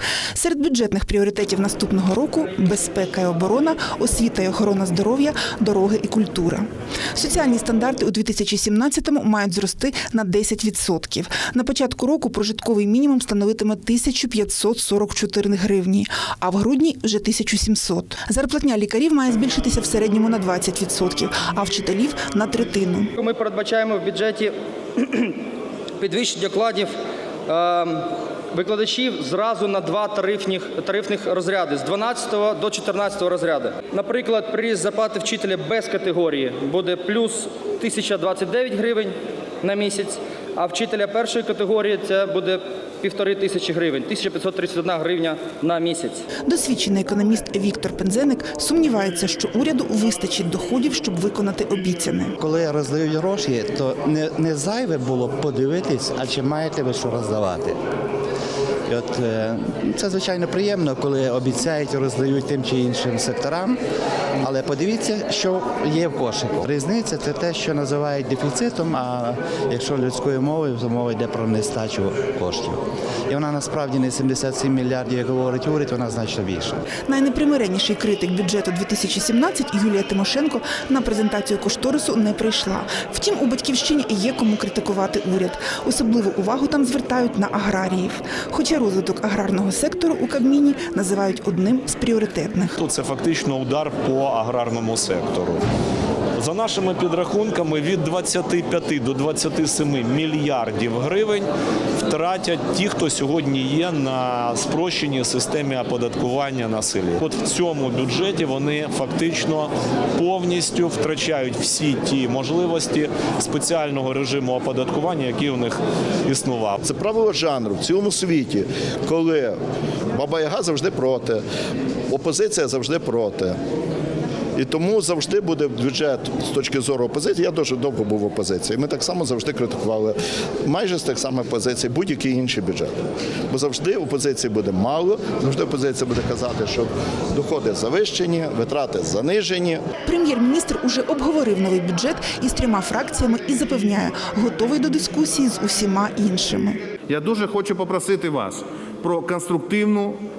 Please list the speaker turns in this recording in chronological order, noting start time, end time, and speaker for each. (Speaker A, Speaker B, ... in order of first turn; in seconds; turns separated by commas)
Speaker A: 0.3-23.1, Speaker B: 23.2-25.4, Speaker B: 26.0-27.0, Speaker B: 27.5-46.2, Speaker A: 46.5-52.3, Speaker C: 52.4-57.8, Speaker C: 58.9-63.8, Speaker C: 64.4-76.8, Speaker A: 77.1-92.8, Speaker D: 92.8-95.6, Speaker D: 96.4-116.8, Speaker E: 116.8-119.6, Speaker E: 120.1-121.4, Speaker E: 122.1-123.6, Speaker E: 124.5-139.8, Speaker A: 140.1-146.8, Speaker F: 147.1-150.2